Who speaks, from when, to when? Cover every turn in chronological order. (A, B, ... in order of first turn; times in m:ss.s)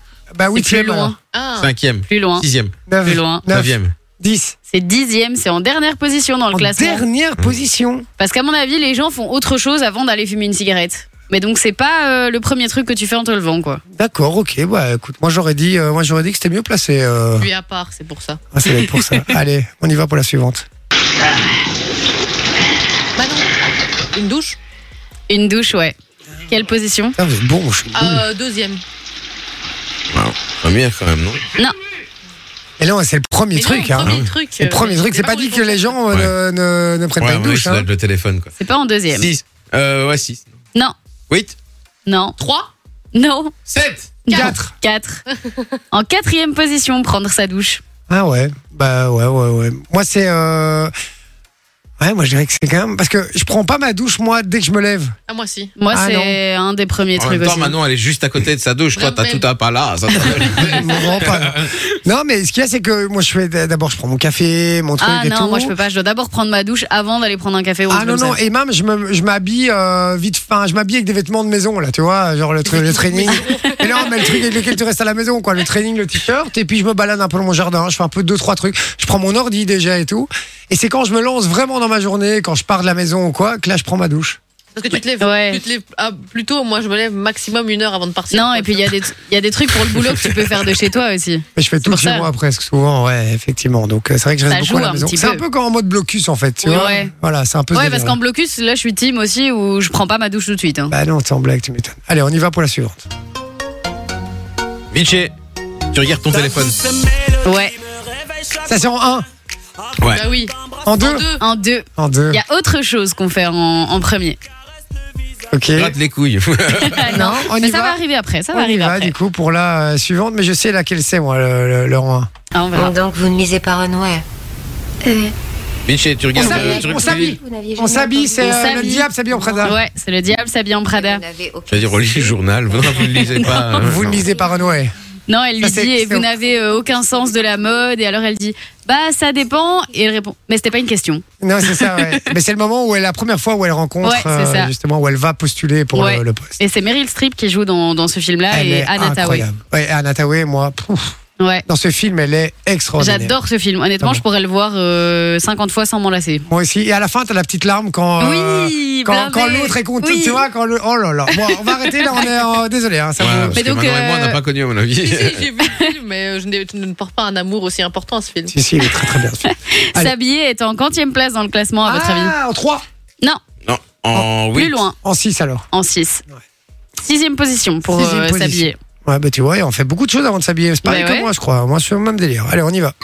0:00.3-0:01.2 A
0:00.5-0:01.2 B
0:01.3-0:01.7 C
0:01.6-0:02.7 D
0:02.1-0:02.4 B
0:02.9-0:04.6 A
0:03.0-0:03.5 B
0:03.5-0:03.9 D
0:04.7-0:07.0 B
0:06.5-0:08.1 A
0:08.2-0:13.8 B
0:13.9-0:17.5 A
0:17.4-0:18.4 C
0:18.5-0:20.6 A
0:23.2-0:23.5 C
0:24.1-0:24.6 C
0:25.3-0:25.9 B
0:26.5-0:27.2 B
0:27.2-0:28.2 A
0:27.9-0:28.8 C
0:30.1-0:31.4 D
0:32.8-0:37.9 A
0:33.5-0:36.0 C
0:37.2-0:38.5 D
0:38.6-0:39.3 B
0:39.1-0:40.4 D
0:41.3-0:41.5 D
0:42.0-0:42.4 B
0:42.4-0:42.7 C
0:43.1-0:43.5 B
0:43.7-0:44.2 D
0:44.2-0:45.2 B
0:44.3-0:44.7 A
0:45.3-0:45.6 C
0:45.9-0:47.8 B
0:48.1-0:50.9 A
0:52.0-0:55.1 A
0:55.3-0:55.7 C
0:55.8-0:57.7 B
0:55.9-0:56.4 A
0:57.2-1:01.7 D
0:58.9-0:59.5 C
1:00.7-1:05.7 A
1:05.0-1:08.4 B
1:07.9-1:24.4 A
1:12.8-1:13.8 C
1:13.3-1:14.1 B
1:24.7-1:28.9 C
1:25.2-1:25.6 B
1:28.3-1:32.3 B
1:31.6-1:38.2 A
1:34.5-1:35.4 B
1:36.6-1:37.1 B
1:37.7-1:40.9 B
1:40.9-1:43.0 A
1:44.9-1:45.3 D
1:45.9-1:46.8 D
1:47.4-1:47.7 B
1:48.6-1:49.2 A
1:50.0-1:50.3 D
1:50.1-1:51.4 C
1:50.8-1:51.3 A
1:51.4-1:54.4 B
1:52.0-1:52.4 A
1:55.5-1:55.9 A
1:55.8-1:57.0 D
1:56.8-1:59.1 B
1:57.0-1:58.0 A
1:58.5-2:02.3 A
2:02.5-2:02.9 B
2:02.7-2:04.2 E
2:05.0-2:05.3 E
2:05.8-2:07.4 D
2:06.4-2:09.8 A
2:06.4-2:09.4 E
2:08.4-2:09.1 B
2:09.6-2:11.2 B
2:11.0-2:13.0 E
2:11.7-2:14.2 D
2:13.0-2:13.9 B
2:13.8-2:14.9 A
2:15.3-2:22.3 B
2:15.6-2:16.3 A
2:21.4-2:26.6 A
2:24.0-2:24.7 B
2:25.9-2:29.5 B
2:28.5-2:31.2 A
2:31.4-2:31.6 B
2:31.7-2:33.3 A
2:33.0-2:36.4 B
2:36.5-2:43.6 A
2:38.2-2:40.4 B
2:41.3-2:41.9 B
2:43.2-2:45.5 D
2:43.6-2:44.4 B
2:45.0-2:48.5 C
2:48.5-2:50.1 A
2:49.4-2:52.3 B
2:51.8-2:52.8 A
2:53.6-2:54.8 D
2:54.5-2:54.9 B
2:55.0-2:55.6 A
2:55.7-2:56.2 B
2:57.0-2:58.8 B
2:57.9-3:02.9 A
3:00.8-3:01.3 B